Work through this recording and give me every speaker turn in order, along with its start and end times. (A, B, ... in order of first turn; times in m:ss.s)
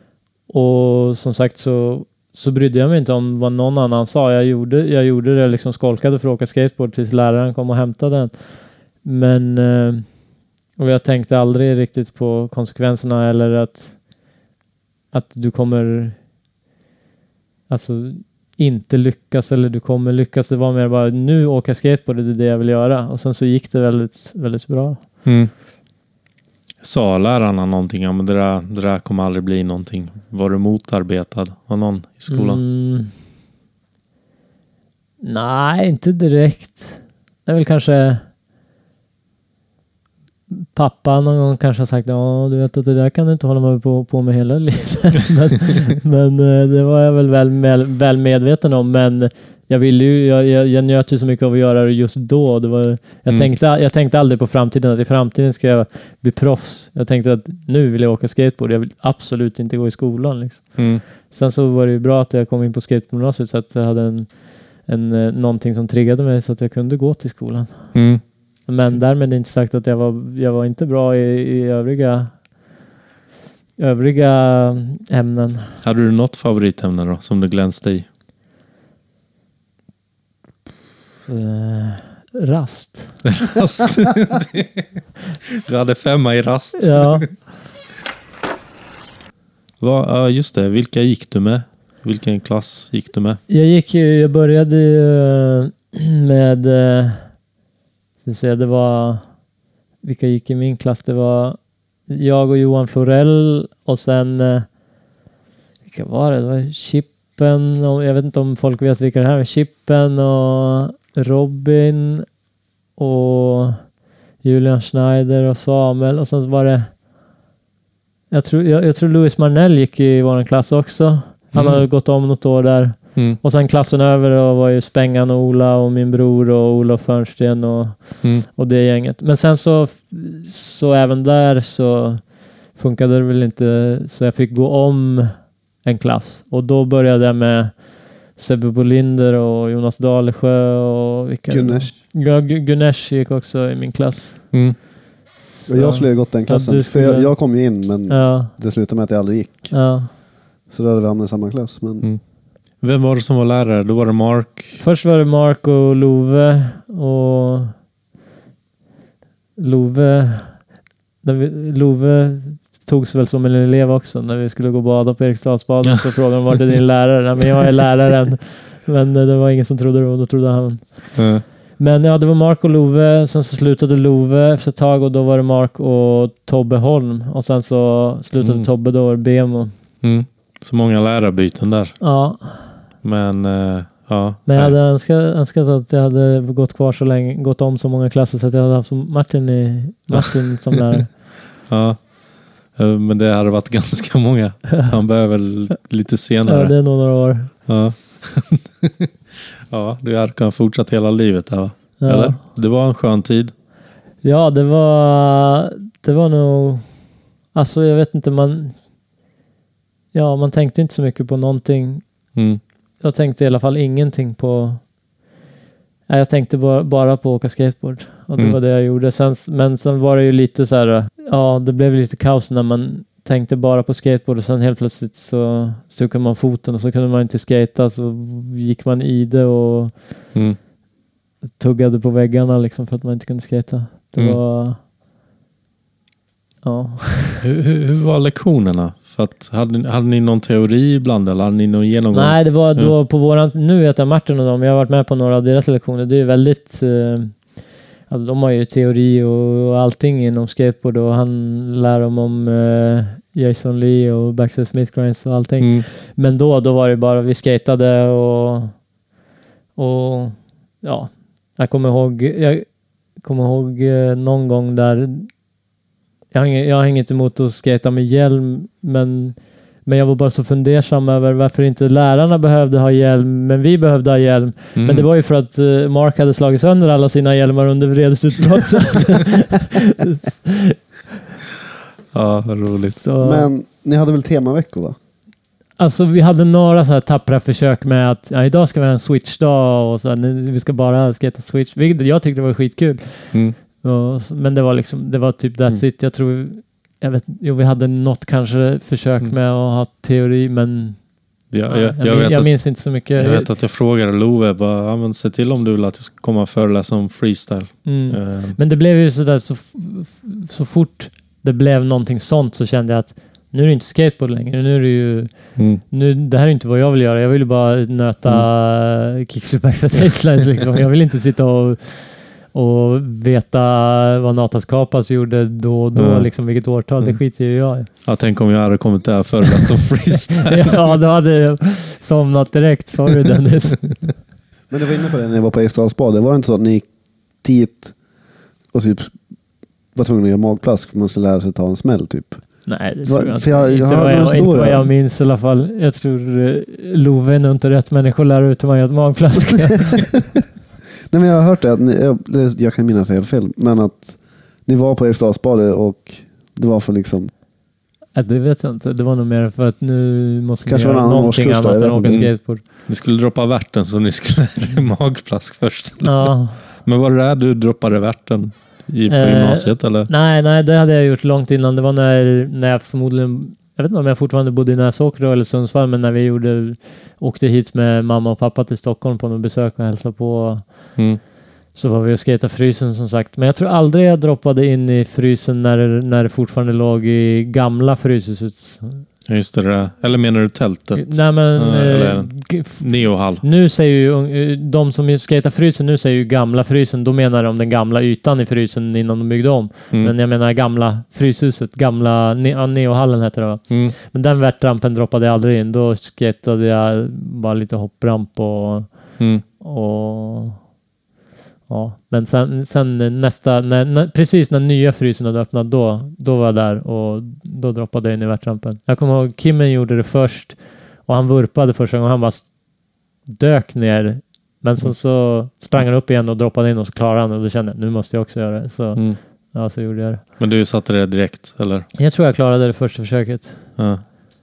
0:00.5-0:10.2 A
0:10.8-0:14.0 A
0:15.1-0:16.2 A
0:17.7-0:25.3 A
0:25.2-0:25.5 B
0:26.8-0:32.6 B
0:32.3-0:33.1 A
0:35.2-0:38.2 A
0:40.5-1:12.4 A
1:00.8-1:01.0 B
1:07.9-1:08.2 B
1:13.8-1:15.8 A
1:15.8-1:18.1 B
1:21.3-1:23.3 A
1:23.3-1:25.0 B
1:25.6-1:27.3 B
1:26.8-1:27.5 A
1:29.8-1:33.4 B
1:33.5-1:37.4 A
1:38.2-1:39.3 A
1:40.0-1:44.7 A
1:45.9-1:52.3 A
1:53.0-1:53.9 A
1:54.4-1:57.0 A
1:58.3-2:24.8 A
2:01.5-2:01.8 B
2:21.5-2:21.9 C
2:24.5-2:24.8 B
2:25.6-2:28.5 A
2:25.7-2:30.2 C
2:29.7-2:30.1 A
2:30.7-2:32.1 C
2:32.8-2:34.8 B
2:34.8-2:37.7 A
2:39.6-2:59.7 A
2:51.2-2:51.4 B
2:58.4-2:58.7 B
3:00.0-3:02.0 B
3:02.0-3:02.7 A
3:03.0-3:04.8 B
3:04.5-3:11.1 A
3:10.1-3:10.6 B
3:11.7-3:19.1 B
3:16.5-3:17.5 A
3:19.7-3:23.5 B
3:22.0-3:22.4 A
3:24.2-3:28.8 A
3:30.1-3:32.0 A
3:32.4-3:32.6 B
3:33.0-3:34.9 A
3:36.1-3:50.1 A
3:51.6-3:54.8 A
3:56.6-3:57.4 A
3:57.4-4:02.9 B
4:02.1-4:18.8 A
4:15.6-4:15.8 B
4:19.8-4:25.3 A
4:26.3-4:40.8 A
4:34.8-4:35.1 B
4:42.1-4:43.0 B
4:42.8-4:43.5 A
4:43.2-4:45.0 C
4:45.8-5:01.0 A
5:01.5-5:08.6 B
5:01.7-5:03.5 A
5:07.8-5:27.9 A
5:26.0-5:26.5 B
5:27.9-5:30.8 B
5:30.4-5:34.1 A
5:34.7-5:38.0 C
5:38.7-5:39.2 C
5:40.0-5:44.9 C
5:42.7-5:50.3 A
5:51.1-5:57.3 C
5:58.1-6:02.6 A
6:00.7-6:02.3 C
6:02.1-6:10.1 B
6:06.0-6:06.6 A
6:09.1-6:21.1 A
6:21.7-6:29.0 A
6:29.3-6:33.4 B
6:31.0-6:50.6 A
6:43.7-6:43.9 B
6:51.7-7:02.6 A
7:03.3-7:10.2 A
7:10.4-7:11.9 B
7:12.0-7:13.6 A
7:13.8-7:14.1 B